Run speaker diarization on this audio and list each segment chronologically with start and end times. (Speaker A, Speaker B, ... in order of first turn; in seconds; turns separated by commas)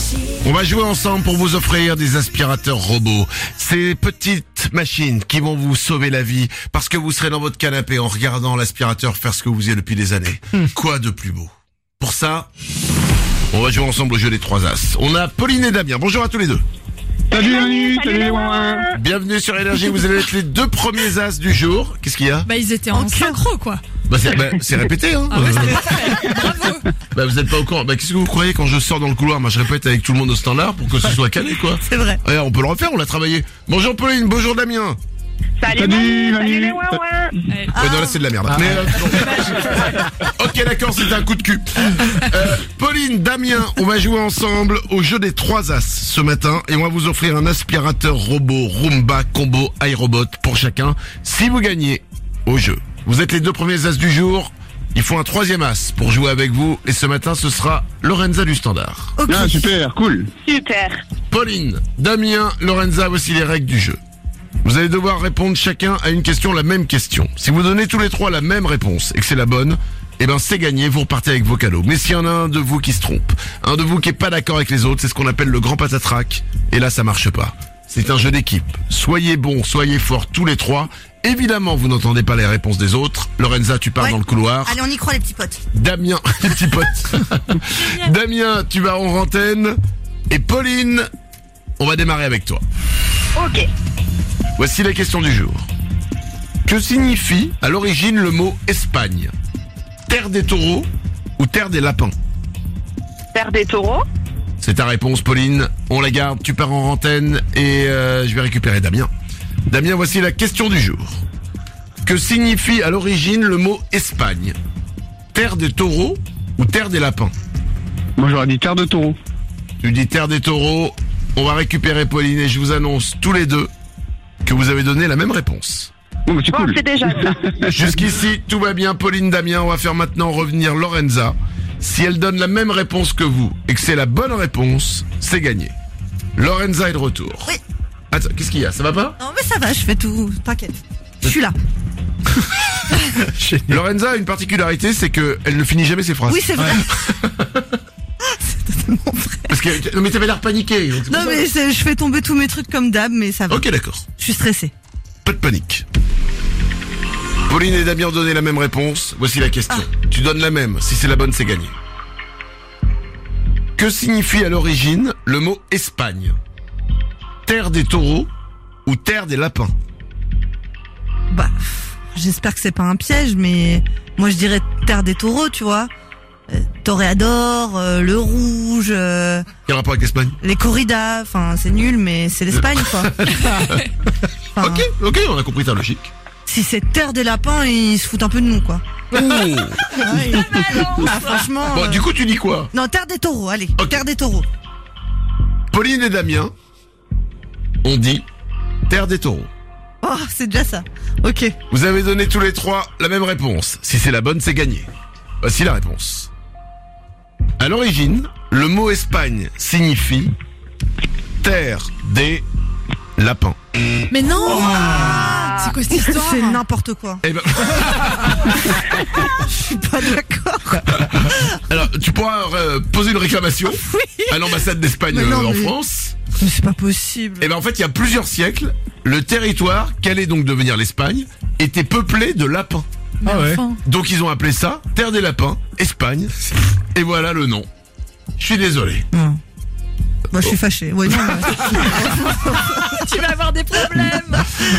Speaker A: 0.4-12.5, Speaker A: 13.5-16.6, Speaker B: 17.3-18.9, Speaker C: 17.4-18.7, Speaker A: 18.9-22.5, Speaker D: 22.5-23.8, Speaker E: 22.9-23.4, Speaker A: 24.1-26.2, Speaker D: 25.3-26.8, Speaker A: 27.1-35.0, Speaker E: 31.8-32.2, Speaker B: 35.7-37.0, Speaker C: 35.7-37.2, Speaker D: 37.5-37.8, Speaker E: 37.7-38.2, Speaker A: 37.8-59.2, Speaker D: 39.1-40.1, Speaker E: 59.2-59.7, Speaker B: 59.3-60.3, Speaker C: 60.5-60.9, Speaker A: 61.3-64.0, Speaker A: 64.6-84.8, Speaker E: 84.0-85.6, Speaker A: 85.7-89.8, Speaker D: 87.8-88.1, Speaker A: 90.3-91.1, Speaker A: 91.8-92.6, Speaker C: 93.4-93.6, Speaker A: 94.6-95.7, Speaker A: 96.7-99.3, Speaker A: 100.1-102.1, Speaker C: 103.3-104.0, Speaker A: 104.6-109.1, Speaker A: 109.7-111.2, Speaker A: 112.0-114.5, Speaker A: 115.3-117.3, Speaker B: 118.2-119.2, Speaker A: 119.8-123.7, Speaker A: 124.4-125.9, Speaker B: 126.3-127.9, Speaker C: 126.5-127.2, Speaker A: 127.7-135.7, Speaker A: 136.4-137.5, Speaker A: 138.1-139.2, Speaker E: 139.2-141.6, Speaker A: 143.5-147.6, Speaker E: 146.3-146.9, Speaker E: 148.2-149.6, Speaker A: 149.5-151.5, Speaker E: 151.1-154.7, Speaker A: 153.5-154.1, Speaker A: 155.2-155.8, Speaker A: 157.5-161.8, Speaker A: 163.8-166.4, Speaker A: 167.5-168.3, Speaker A: 168.9-169.7, Speaker E: 171.3-175.9, Speaker E: 176.5-179.5, Speaker A: 179.7-180.4, Speaker E: 180.4-183.1, Speaker A: 182.5-183.9, Speaker E: 184.6-184.9, Speaker A: 184.6-186.1, Speaker E: 186.5-188.8, Speaker A: 189.1-190.2, Speaker E: 190.0-192.0, Speaker A: 191.7-192.7, Speaker E: 192.7-194.5, Speaker A: 195.7-196.5, Speaker A: 197.8-198.2, Speaker A: 198.9-199.5, Speaker E: 200.0-201.6, Speaker A: 201.7-204.9, Speaker A: 205.4-206.3, Speaker A: 207.6-210.3, Speaker A: 211.4-212.4, Speaker A: 213.2-213.6, Speaker D: 214.1-216.6, Speaker E: 214.4-217.2, Speaker A: 217.2-218.6, Speaker E: 218.7-221.4, Speaker A: 221.7-226.2, Speaker E: 223.7-224.5, Speaker E: 225.1-225.7, Speaker E: 226.4-227.5, Speaker A: 227.4-232.9, Speaker D: 233.2-233.8, Speaker A: 233.8-236.4, Speaker A: 236.9-237.7, Speaker A: 238.4-239.1, Speaker E: 239.1-239.4, Speaker E: 240.3-242.9, Speaker D: 242.7-244.5